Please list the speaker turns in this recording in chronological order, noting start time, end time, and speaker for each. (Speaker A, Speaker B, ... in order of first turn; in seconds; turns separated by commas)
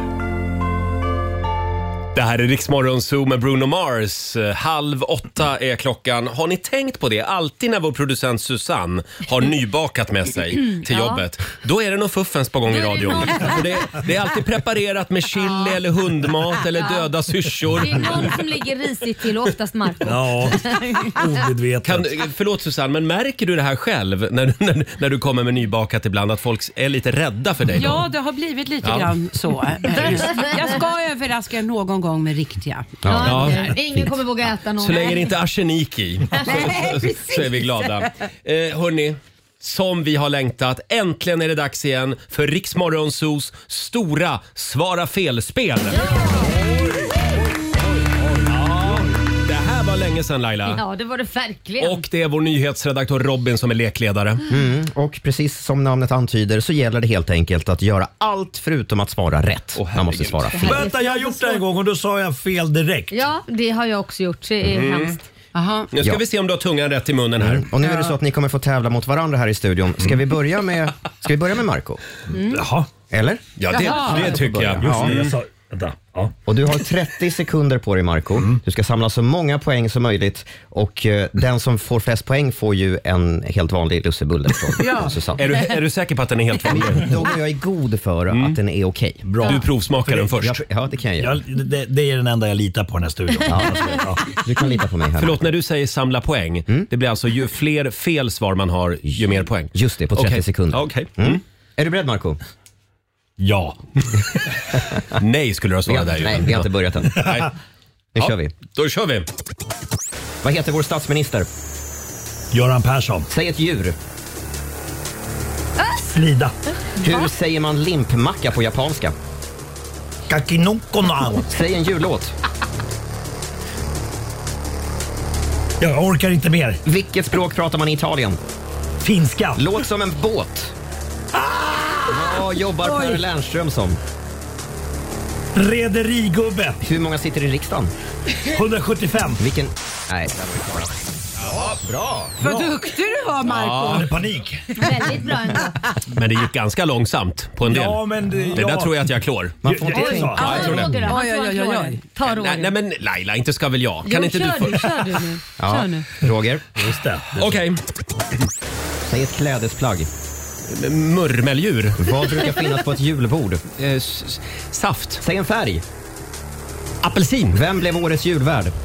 Speaker A: 2.1-18.4, Speaker B: 10.7-11.2, Speaker B: 12.7-14.0, Speaker B: 16.8-17.1, Speaker B: 17.8-21.1, Speaker C: 20.0-22.1, Speaker A: 21.8-28.1, Speaker D: 27.7-33.7, Speaker A: 28.8-29.1, Speaker A: 29.9-30.3, Speaker E: 33.0-34.1, Speaker B: 33.1-35.3, Speaker A: 33.2-33.7, Speaker A: 34.8-46.2, Speaker B: 36.4-37.1, Speaker D: 36.4-37.6, Speaker B: 45.9-46.5, Speaker C: 46.4-47.1, Speaker C: 48.0-49.1, Speaker A: 48.5-50.8, Speaker B: 50.6-52.0, Speaker A: 51.8-54.4, Speaker E: 54.5-60.9, Speaker A: 59.8-60.6, Speaker B: 60.5-61.6, Speaker C: 60.6-63.1, Speaker B: 63.1-65.2, Speaker A: 64.6-65.2, Speaker D: 65.5-65.9, Speaker A: 65.9-67.7, Speaker E: 67.4-72.0, Speaker D: 67.8-68.1, Speaker C: 72.3-72.9, Speaker E: 73.1-75.2, Speaker A: 73.6-75.3, Speaker D: 73.7-74.3, Speaker C: 74.8-76.3, Speaker E: 76.5-85.4, Speaker D: 84.8-85.2, Speaker A: 85.3-87.2, Speaker E: 86.7-89.2, Speaker A: 88.3-88.6, Speaker C: 89.2-90.5, Speaker A: 89.4-90.5, Speaker E: 90.4-91.4, Speaker C: 91.2-94.2, Speaker E: 93.5-95.4, Speaker A: 95.2-101.4, Speaker E: 99.7-102.4, Speaker C: 103.4-103.8, Speaker A: 105.2-107.5, Speaker E: 105.8-107.2, Speaker E: 108.2-108.5, Speaker A: 108.2-109.3, Speaker E: 110.4-111.5, Speaker C: 112.5-113.3, Speaker E: 113.3-114.0, Speaker C: 116.0-116.5, Speaker E: 117.0-119.1, Speaker C: 120.3-121.5, Speaker E: 121.5-122.3, Speaker C: 125.8-126.8, Speaker E: 126.8-128.4, Speaker C: 129.0-129.6, Speaker E: 129.6-130.7, Speaker D: 131.5-132.3, Speaker E: 132.1-134.0, Speaker D: 132.8-133.2, Speaker C: 135.5-136.8, Speaker E: 136.8-137.9, Speaker C: 138.4-139.4, Speaker E: 139.4-140.9, Speaker A: 141.4-141.8, Speaker E: 141.5-142.3, Speaker D: 142.4-144.1, Speaker C: 142.4-142.8, Speaker A: 143.4-144.1, Speaker C: 143.8-144.7, Speaker B: 144.8-145.8, Speaker A: 146.1-149.6, Speaker C: 147.6-149.1, Speaker E: 149.6-150.7, Speaker C: 149.6-150.9, Speaker B: 149.9-152.7, Speaker A: 150.4-151.1, Speaker D: 150.4-152.0, Speaker A: 152.2-154.9, Speaker B: 154.0-156.1, Speaker E: 155.6-156.6, Speaker C: 156.8-157.6, Speaker A: 157.4-157.8, Speaker E: 159.0-160.1, Speaker A: 160.7-162.0, Speaker E: 162.0-163.6, Speaker A: 163.8-165.2, Speaker E: 165.2-165.8, Speaker A: 167.0-167.6, Speaker E: 167.5-168.7